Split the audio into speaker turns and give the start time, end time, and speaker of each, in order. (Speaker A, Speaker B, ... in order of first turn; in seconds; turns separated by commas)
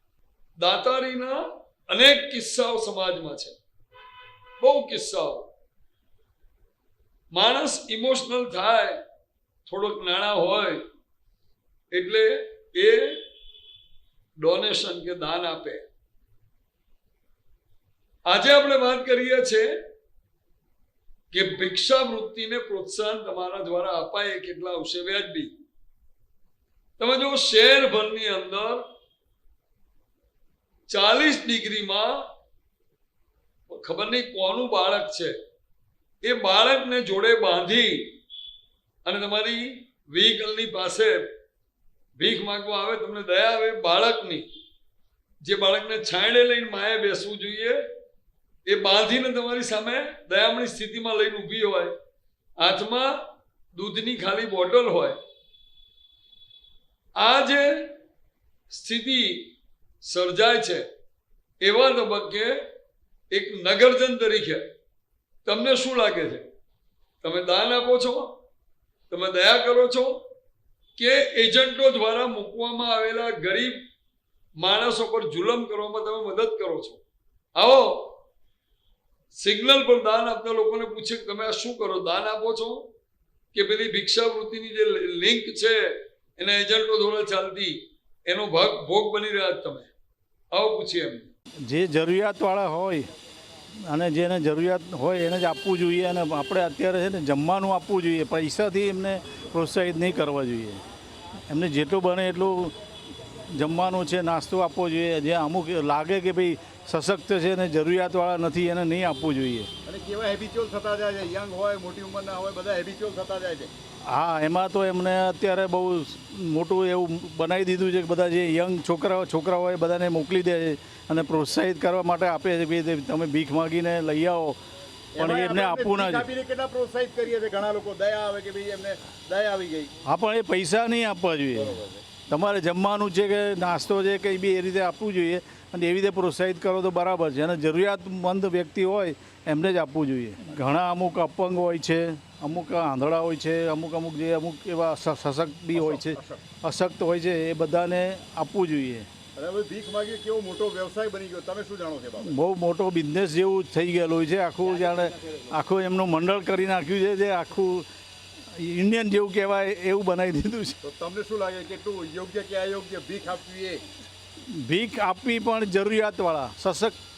Speaker A: 0.6-3.6, Speaker A: 4.6-5.5, Speaker A: 7.3-9.0, Speaker A: 9.7-10.8, Speaker A: 11.9-13.2, Speaker A: 14.4-15.9, Speaker A: 18.3-19.7, Speaker A: 21.3-25.5, Speaker A: 27.0-28.8, Speaker A: 30.9-32.2, Speaker A: 33.7-35.4, Speaker A: 36.2-38.1, Speaker A: 39.0-41.3, Speaker A: 42.2-44.5, Speaker A: 45.4-47.8, Speaker A: 48.7-52.0, Speaker A: 52.6-53.2, Speaker A: 53.7-55.2, Speaker A: 57.2-57.9, Speaker A: 58.7-59.5, Speaker A: 60.0-60.9, Speaker A: 61.6-62.6, Speaker A: 63.3-64.7, Speaker A: 65.5-66.5, Speaker A: 67.2-68.3, Speaker A: 69.1-70.2, Speaker A: 71.0-73.8, Speaker A: 74.6-77.0, Speaker A: 77.6-78.2, Speaker A: 79.4-82.9, Speaker A: 83.5-89.9, Speaker A: 90.5-91.3, Speaker B: 91.6-93.1, Speaker B: 93.8-100.8, Speaker B: 101.5-102.8, Speaker B: 103.5-109.7, Speaker C: 109.9-113.7, Speaker B: 114.1-124.6, Speaker C: 125.2-129.9, Speaker B: 125.2-126.3, Speaker B: 130.1-149.1, Speaker C: 131.5-132.1, Speaker C: 145.7-146.4, Speaker C: 149.4-152.3, Speaker B: 152.2-157.9, Speaker B: 158.6-160.8, Speaker C: 160.8-163.8, Speaker B: 164.5-167.0